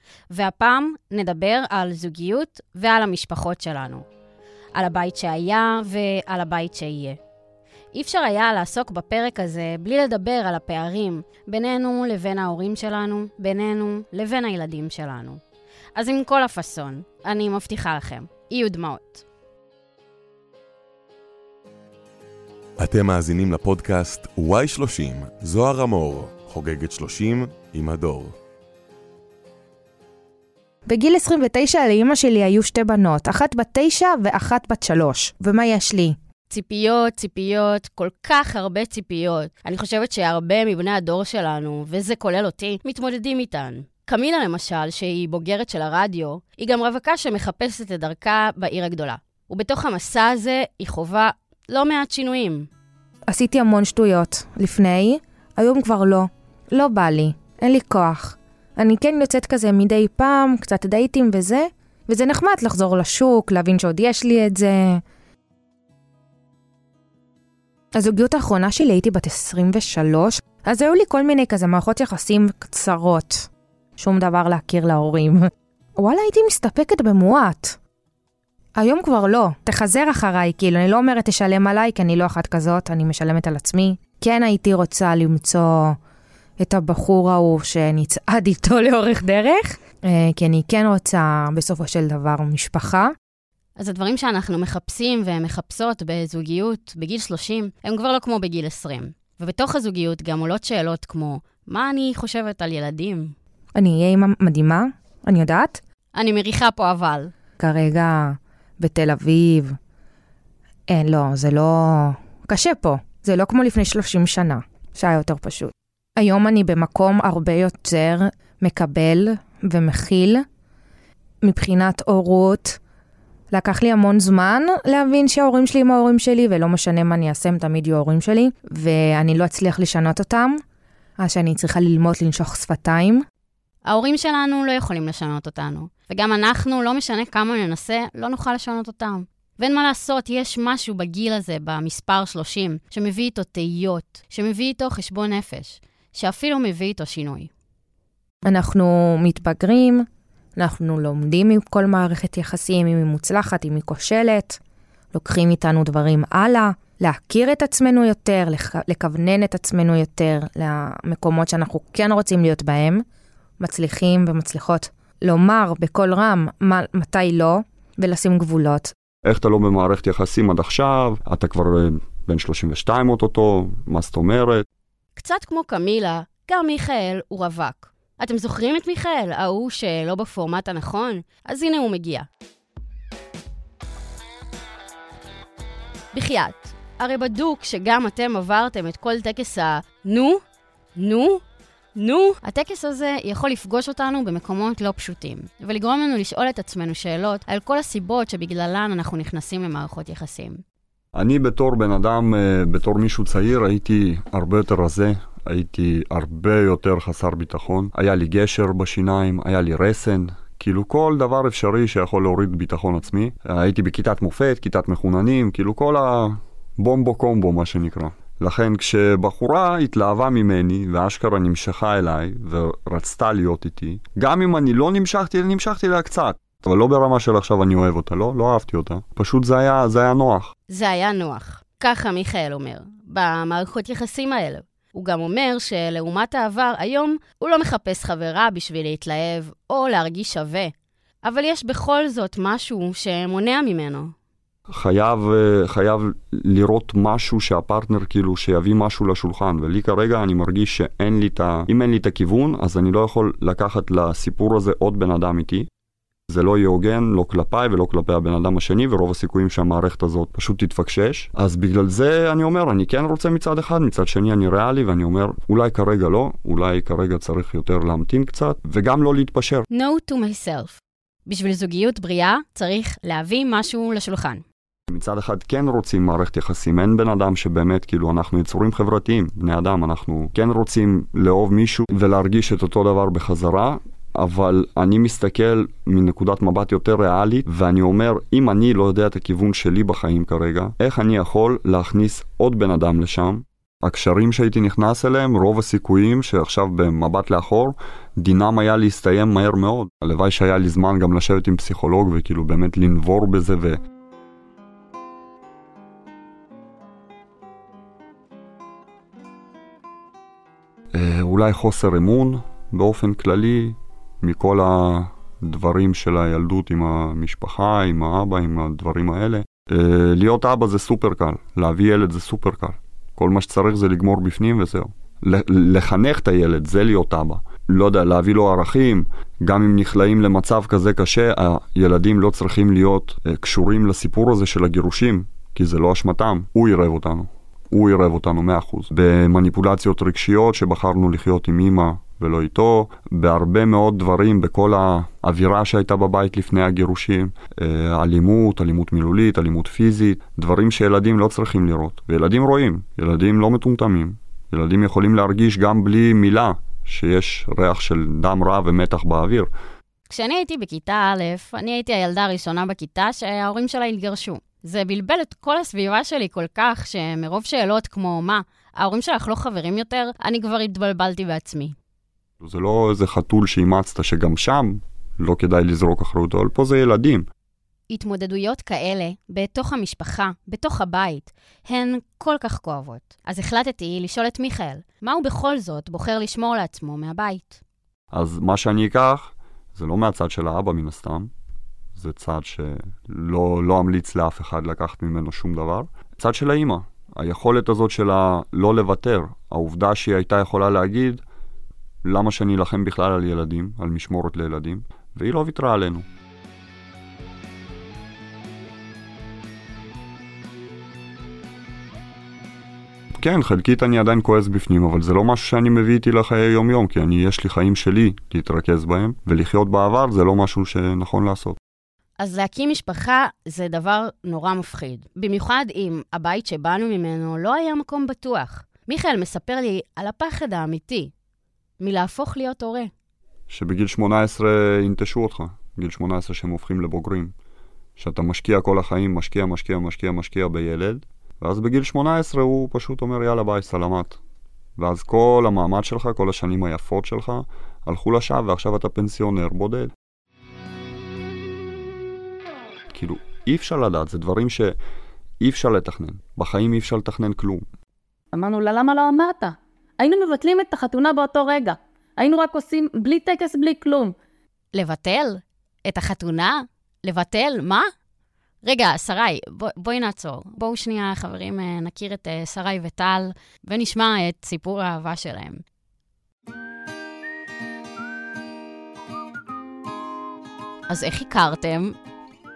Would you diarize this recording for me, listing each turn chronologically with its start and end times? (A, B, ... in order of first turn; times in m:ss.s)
0:00.3-0:04.1 A
0:04.8-0:07.2 A
0:07.9-0:15.4 A
0:16.0-0:19.2 A
0:22.8-0:28.4 B
0:30.9-0:36.2 C
0:36.5-0:52.7 A
0:53.3-1:05.0 C
1:08.0-1:17.8 C
1:18.8-1:26.0 C
1:26.6-1:33.1 C
1:33.8-1:43.4 A
1:43.8-1:45.8 C
1:46.2-1:47.3 A
1:47.6-1:49.8 C
1:50.9-2:00.4 C
2:01.4-2:02.8 C
2:03.5-2:10.6 C
2:11.2-2:13.2 C
2:13.9-2:27.5 A
2:28.5-2:30.1 C
2:30.6-2:34.6 C
2:35.1-2:43.0 C
2:43.6-2:48.9 C
2:49.2-2:54.7 D
2:55.2-3:02.3 A
3:06.1-3:10.4 A
3:11.0-3:11.4 A
3:12.0-3:20.6 A
3:21.2-3:50.5 D
3:50.7-4:04.1 A
4:04.7-4:15.7 D
4:16.3-4:29.7 D
4:29.7-4:34.4 A
4:34.9-5:03.8 D
5:10.9-5:59.5 D
6:00.1-6:11.8 A
6:12.4-6:17.3 D
6:17.9-6:27.6 A
6:28.1-6:31.3 D
6:32.0-6:41.2 D
6:42.0-6:46.1 D
6:53.2-7:01.6 D
7:02.2-7:11.1 A
7:11.8-7:12.9 A
7:13.5-7:17.3 D
7:18.0-7:24.2 D
7:24.8-7:29.9 D
7:32.9-7:34.8 D
7:35.4-7:37.7 D
7:38.3-7:44.2 E
7:44.7-7:47.9 A
7:48.6-7:55.6 A
8:00.9-8:02.0 A